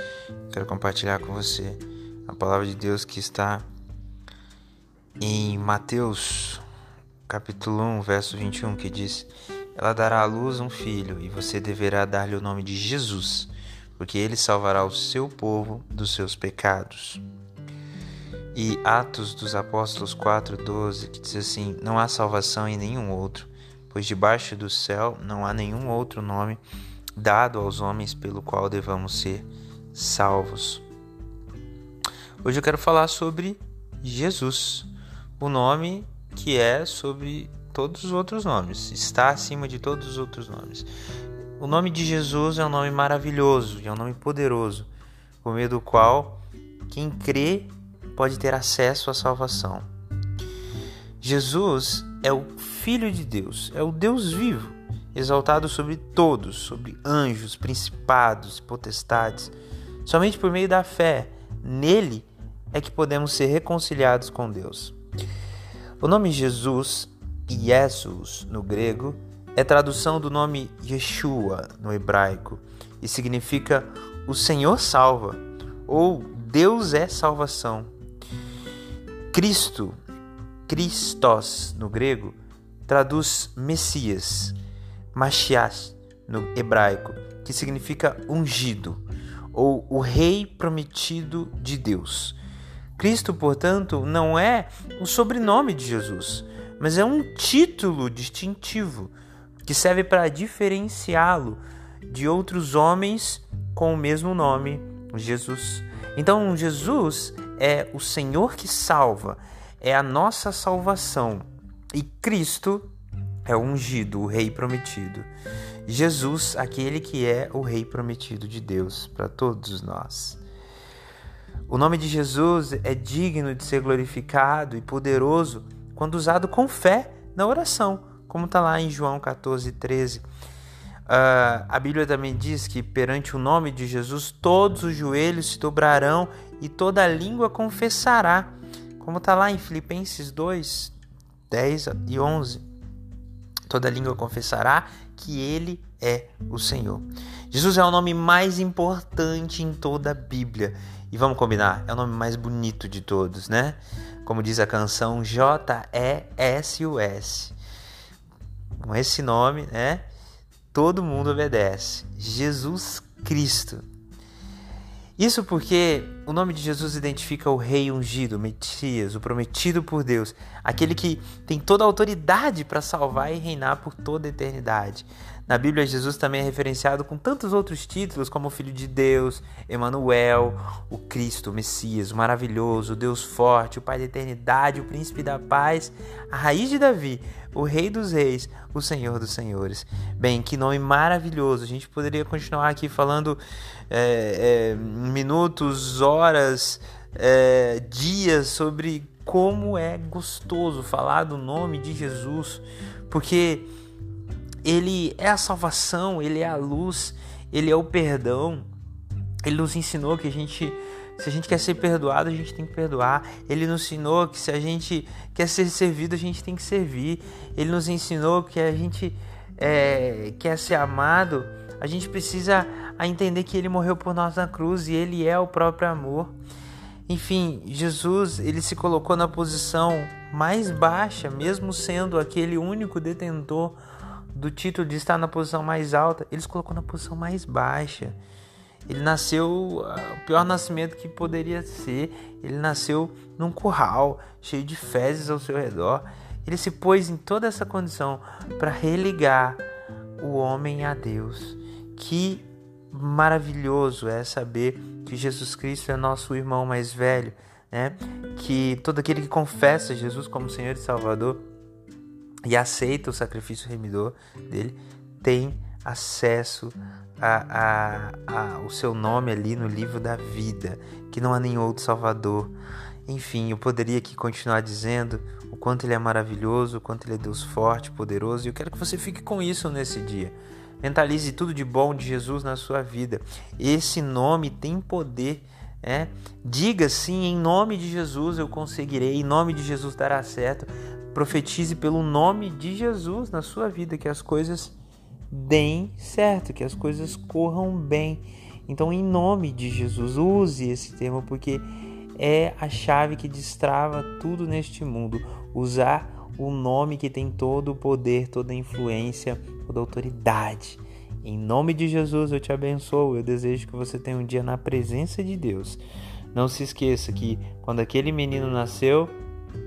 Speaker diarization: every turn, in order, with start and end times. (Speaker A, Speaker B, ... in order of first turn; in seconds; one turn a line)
Speaker A: 0.5-3.7
Speaker A: 5.2-6.6
Speaker A: 7.3-17.2
Speaker A: 18.5-26.6
Speaker A: 27.2-30.8
Speaker A: 32.4-40.9
Speaker A: 41.6-44.9
Speaker A: 45.4-49.9
Speaker A: 51.2-59.5
Speaker A: 60.0-64.9
Speaker A: 66.0-77.9
Speaker A: 79.3-79.9
Speaker A: 80.7-84.5
Speaker A: 85.1-89.0
Speaker A: 89.5-92.4
Speaker A: 93.0-99.1
Speaker A: 99.6-112.9
Speaker A: 113.5-115.3
Speaker A: 115.8-120.4
Speaker A: 121.7-130.2
Speaker A: 131.1-140.9
Speaker A: 141.5-142.6
Speaker A: 143.7-157.5
Speaker A: 158.8-160.1
Speaker A: 160.7-163.8
Speaker A: 165.2-203.7
Speaker A: 204.6-208.7
Speaker A: 209.4-226.3
Speaker A: 227.1-233.8
Speaker A: 234.3-238.2
Speaker A: 238.9-249.6
Speaker A: 250.2-261.4
Speaker A: 262.4-272.5
Speaker A: 273.1-294.7
Speaker A: 295.3-301.6
Speaker A: 302.2-315.8
Speaker A: 316.3-319.1